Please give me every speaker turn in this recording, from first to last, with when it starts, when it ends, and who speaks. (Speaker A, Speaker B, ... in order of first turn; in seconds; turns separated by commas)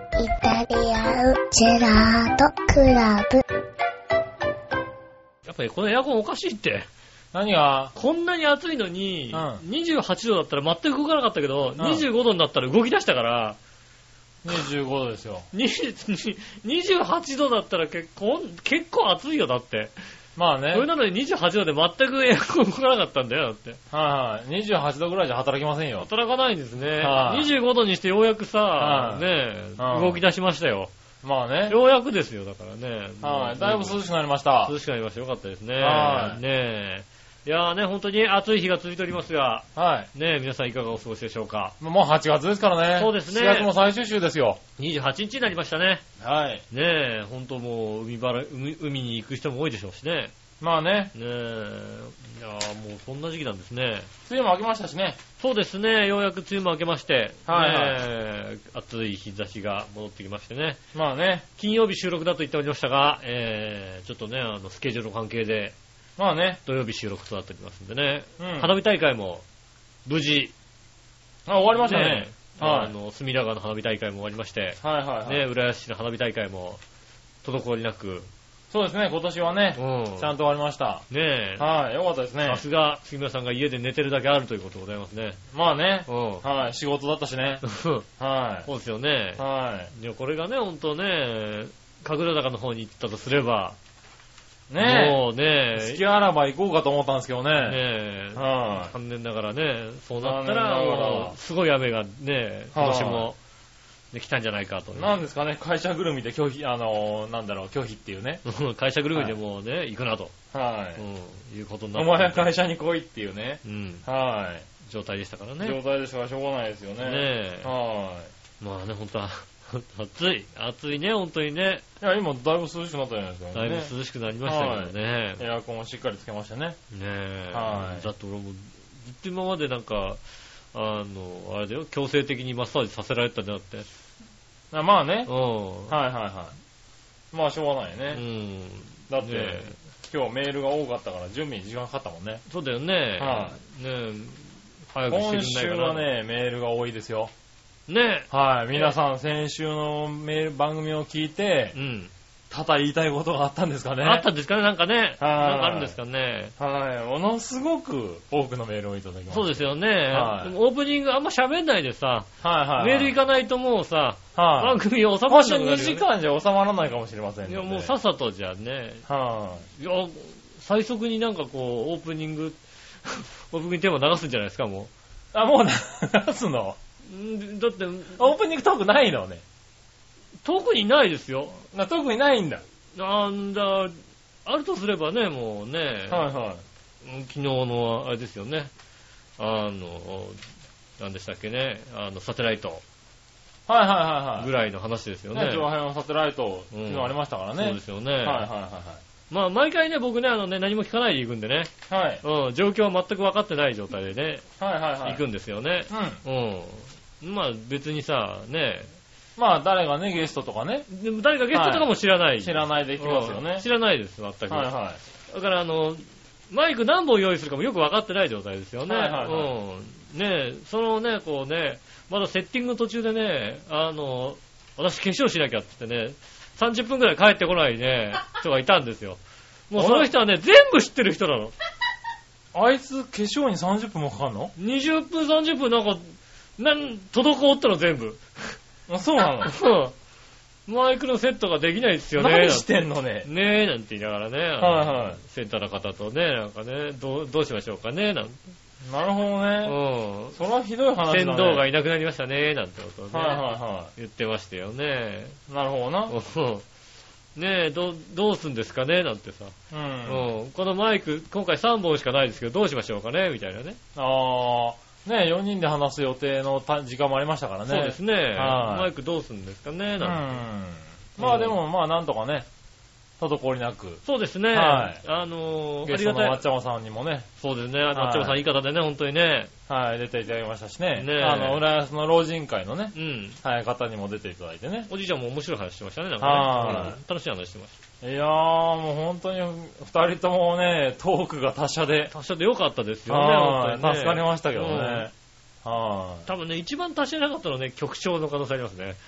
Speaker A: 0.1-3.4, Speaker B: 5.4-6.9, Speaker C: 7.3-7.9, Speaker B: 7.9-13.6, Speaker C: 9.3-9.6, Speaker C: 11.8-12.0, Speaker C: 14.4-15.5, Speaker B: 15.5-19.9, Speaker C: 20.4-20.9, Speaker B: 20.7-23.8, Speaker C: 23.9-26.1, Speaker B: 26.0-30.9, Speaker C: 27.0-27.5, Speaker C: 28.8-29.2, Speaker C: 29.8-30.2, Speaker C: 31.2-31.8, Speaker B: 31.7-34.0, Speaker C: 33.2-34.7, Speaker B: 34.6-41.7, Speaker C: 35.8-36.4, Speaker C: 39.7-40.1, Speaker C: 41.8-44.6, Speaker B: 43.0-43.7, Speaker B: 44.8-46.0, Speaker C: 46.2-46.6, Speaker B: 46.7-50.3, Speaker C: 50.6-51.1, Speaker B: 51.1-54.1, Speaker C: 54.2-55.2, Speaker B: 55.4-60.8, Speaker C: 57.5-58.0, Speaker C: 60.9-61.5, Speaker B: 61.6-65.7, Speaker C: 66.2-66.6, Speaker B: 66.7-69.4, Speaker C: 68.4-68.8, Speaker B: 70.0-70.5, Speaker C: 71.5-72.9, Speaker B: 71.8-76.8, Speaker C: 74.8-75.4, Speaker B: 77.4-78.3, Speaker C: 78.7-81.0, Speaker B: 79.8-80.3, Speaker B: 81.1-81.7, Speaker C: 81.6-82.6, Speaker B: 82.5-85.4, Speaker C: 85.5-87.6, Speaker B: 86.1-86.4, Speaker B: 87.6-88.0, Speaker C: 88.2-88.7, Speaker B: 88.7-93.8, Speaker C: 89.4-89.9, Speaker C: 94.7-95.2, Speaker B: 94.8-96.0, Speaker C: 95.7-97.8, Speaker B: 97.6-103.4, Speaker C: 98.3-98.9, Speaker C: 100.2-101.4, Speaker C: 102.7-103.3, Speaker B: 104.1-105.1, Speaker C: 104.9-108.4, Speaker B: 108.4-110.3, Speaker C: 110.5-111.0, Speaker B: 111.0-112.5, Speaker C: 111.9-114.7, Speaker B: 113.6-114.0, Speaker B: 114.8-115.8, Speaker C: 115.6-118.3, Speaker B: 117.0-117.7, Speaker B: 118.6-121.8, Speaker C: 122.0-123.9, Speaker B: 123.5-125.4, Speaker C: 124.4-126.8, Speaker B: 126.9-130.2, Speaker C: 127.5-128.1, Speaker B: 130.7-133.9, Speaker C: 134.7-135.3, Speaker B: 135.3-135.9, Speaker C: 135.9-136.6, Speaker C: 137.3-138.2, Speaker B: 138.1-139.7, Speaker C: 139.1-142.4, Speaker B: 142.5-146.1, Speaker C: 143.2-143.6, Speaker C: 145.1-147.3, Speaker B: 147.9-148.9, Speaker C: 148.3-151.7, Speaker B: 151.7-152.1, Speaker C: 152.5-154.3, Speaker B: 154.0-156.5, Speaker C: 155.2-155.9, Speaker C: 156.6-159.5, Speaker B: 159.3-166.0, Speaker C: 160.1-160.5, Speaker C: 162.4-163.1, Speaker C: 164.3-167.9, Speaker B: 167.4-169.0, Speaker C: 169.1-169.7, Speaker B: 169.8-174.9, Speaker C: 175.3-176.8, Speaker B: 177.1-178.2, Speaker C: 178.2-179.4, Speaker B: 180.4-181.6, Speaker C: 181.7-182.6, Speaker B: 182.9-186.3, Speaker C: 186.1-186.6, Speaker B: 187.0-188.7, Speaker B: 189.4-190.4, Speaker B: 191.0-192.8, Speaker C: 193.7-194.5, Speaker B: 194.4-195.7, Speaker C: 195.3-199.0, Speaker B: 196.7-198.4, Speaker B: 199.3-201.7, Speaker C: 201.9-202.2, Speaker B: 202.2-204.4, Speaker C: 204.6-205.2, Speaker B: 205.0-208.9, Speaker C: 205.9-206.2, Speaker C: 209.4-210.8, Speaker B: 210.9-214.7, Speaker C: 211.5-213.7, Speaker C: 214.5-215.0, Speaker B: 215.3-229.2, Speaker C: 218.9-219.5, Speaker B: 229.7-231.5, Speaker C: 229.8-230.1, Speaker C: 232.5-234.5, Speaker B: 234.6-238.6, Speaker C: 238.9-239.5, Speaker B: 239.4-239.9, Speaker B: 240.7-242.7, Speaker C: 242.1-243.3, Speaker B: 243.2-248.4, Speaker C: 244.6-245.2, Speaker C: 248.8-249.8, Speaker B: 249.6-250.4, Speaker C: 250.3-251.7, Speaker B: 251.1-255.4, Speaker C: 253.1-253.9, Speaker C: 255.5-256.1, Speaker B: 256.1-256.6, Speaker B: 257.4-259.5, Speaker C: 259.7-260.3, Speaker B: 260.1-263.8, Speaker C: 263.9-268.9, Speaker B: 267.7-270.3, Speaker C: 270.0-272.5, Speaker B: 271.2-271.6, Speaker C: 273.2-275.0, Speaker B: 274.0-276.4, Speaker C: 275.9-277.3, Speaker B: 277.4-279.5, Speaker C: 277.9-278.4, Speaker C: 279.7-284.9, Speaker B: 281.0-281.6, Speaker B: 282.9-283.4, Speaker B: 284.9-287.8, Speaker C: 286.2-286.9, Speaker C: 288.0-292.1, Speaker B: 292.1-295.1, Speaker C: 293.1-295.1, Speaker C: 295.6-296.2, Speaker B: 296.3-299.0